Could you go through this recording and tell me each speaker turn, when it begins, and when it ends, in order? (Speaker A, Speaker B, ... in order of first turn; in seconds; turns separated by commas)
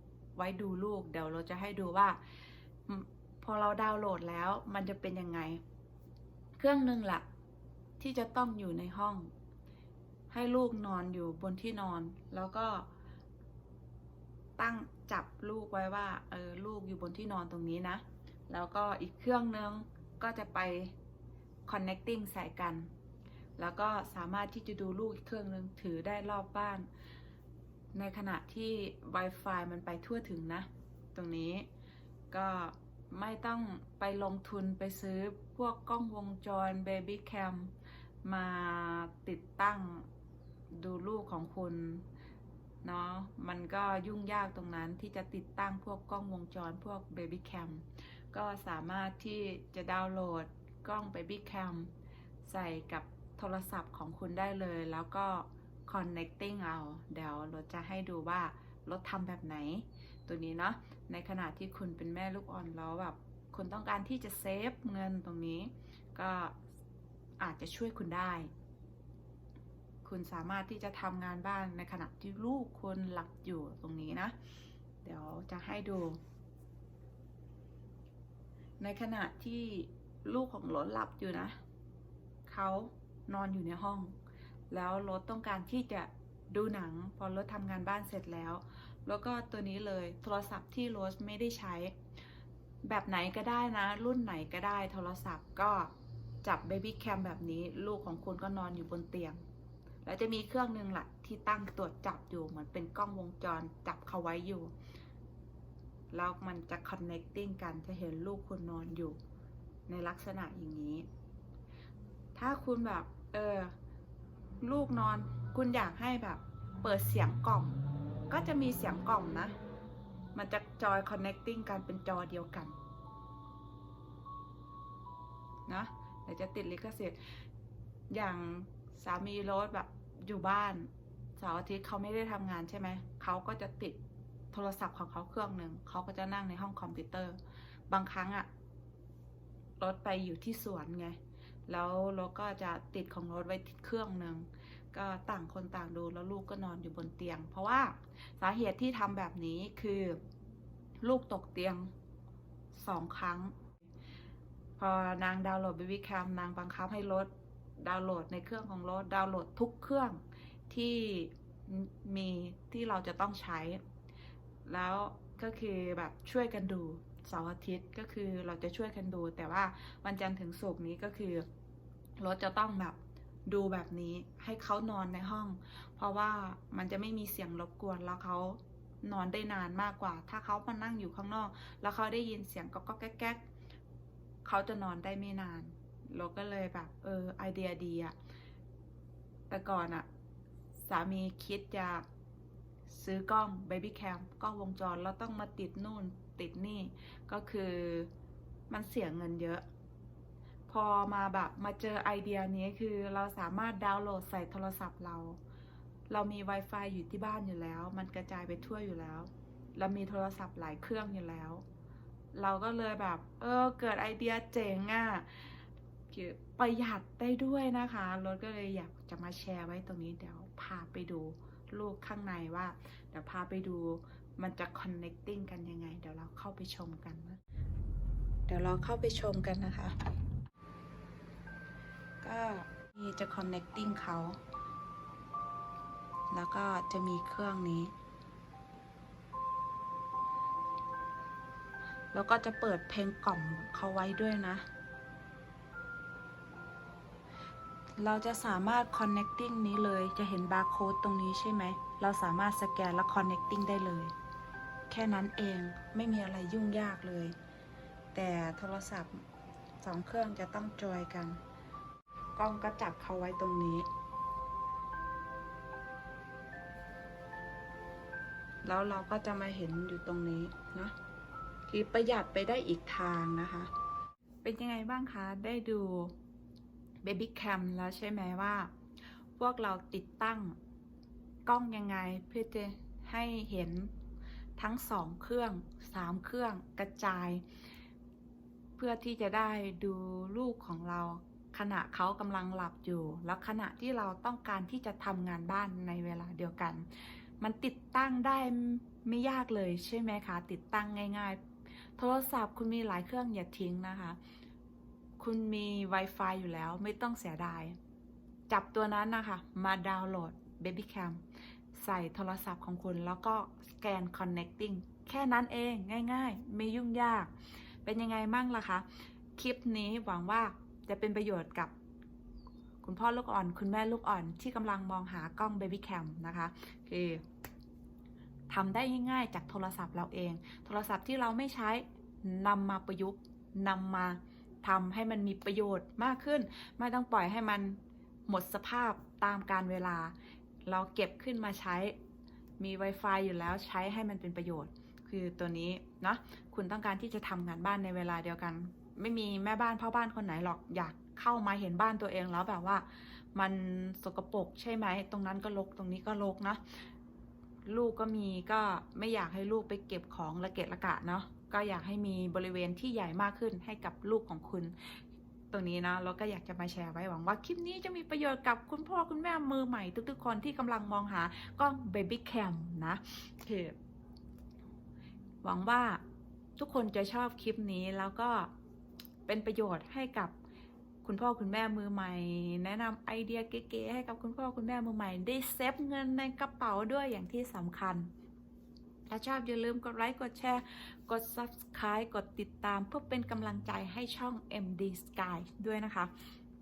Speaker A: 0.3-2.2, Speaker A: 2.9-5.6, Speaker A: 6.6-7.2, Speaker A: 8.0-9.3, Speaker A: 10.3-12.9, Speaker A: 14.6-20.9, Speaker A: 21.7-22.9, Speaker A: 23.6-26.9, Speaker A: 27.9-31.7, Speaker A: 32.3-37.7, Speaker A: 38.2-40.1, Speaker A: 40.7-42.0, Speaker A: 42.8-51.9, Speaker A: 52.4-66.6, Speaker A: 67.4-68.5, Speaker A: 70.0-74.3, Speaker A: 75.0-76.2, Speaker A: 78.8-81.6, Speaker A: 82.5-84.2, Speaker A: 84.7-92.0, Speaker A: 92.8-95.9, Speaker A: 96.4-99.4, Speaker A: 100.0-104.7, Speaker A: 106.1-109.2, Speaker A: 109.9-111.0, Speaker A: 112.3-113.7, Speaker A: 114.6-119.5, Speaker A: 120.3-122.8, Speaker A: 125.7-127.2, Speaker A: 128.1-134.0, Speaker A: 134.5-137.4, Speaker A: 137.9-138.5, Speaker A: 139.8-141.2, Speaker A: 141.7-150.2, Speaker A: 151.0-151.9, Speaker A: 152.7-153.5, Speaker A: 154.8-163.8, Speaker A: 164.7-171.4, Speaker A: 172.2-183.4, Speaker A: 184.4-188.1, Speaker A: 189.5-190.1, Speaker A: 190.9-192.0, Speaker A: 192.9-198.1, Speaker A: 198.7-199.6, Speaker A: 200.7-205.4, Speaker A: 206.1-211.6, Speaker A: 212.3-227.4, Speaker A: 228.5-229.9, Speaker A: 232.2-234.4, Speaker A: 236.3-237.9, Speaker A: 242.1-244.6, Speaker A: 248.0-254.1, Speaker A: 254.9-257.4, Speaker A: 258.1-259.2, Speaker A: 259.8-261.4, Speaker A: 262.4-263.9, Speaker A: 268.6-270.9, Speaker A: 271.7-273.7, Speaker A: 274.4-276.1, Speaker A: 277.0-278.7, Speaker A: 279.4-280.6, Speaker A: 281.4-283.9, Speaker A: 284.6-287.4, Speaker A: 288.8-296.9, Speaker A: 297.4-301.4, Speaker A: 302.0-304.2, Speaker A: 305.2-307.8, Speaker A: 308.5-311.2, Speaker A: 311.7-317.3, Speaker A: 317.8-321.7, Speaker A: 322.8-327.2, Speaker A: 328.5-340.1, Speaker A: 340.6-341.9, Speaker A: 342.6-356.8, Speaker A: 357.6-364.9, Speaker A: 365.5-373.8, Speaker A: 375.4-376.0, Speaker A: 376.6-378.5, Speaker A: 379.3-380.3, Speaker A: 381.0-388.1, Speaker A: 389.1-396.1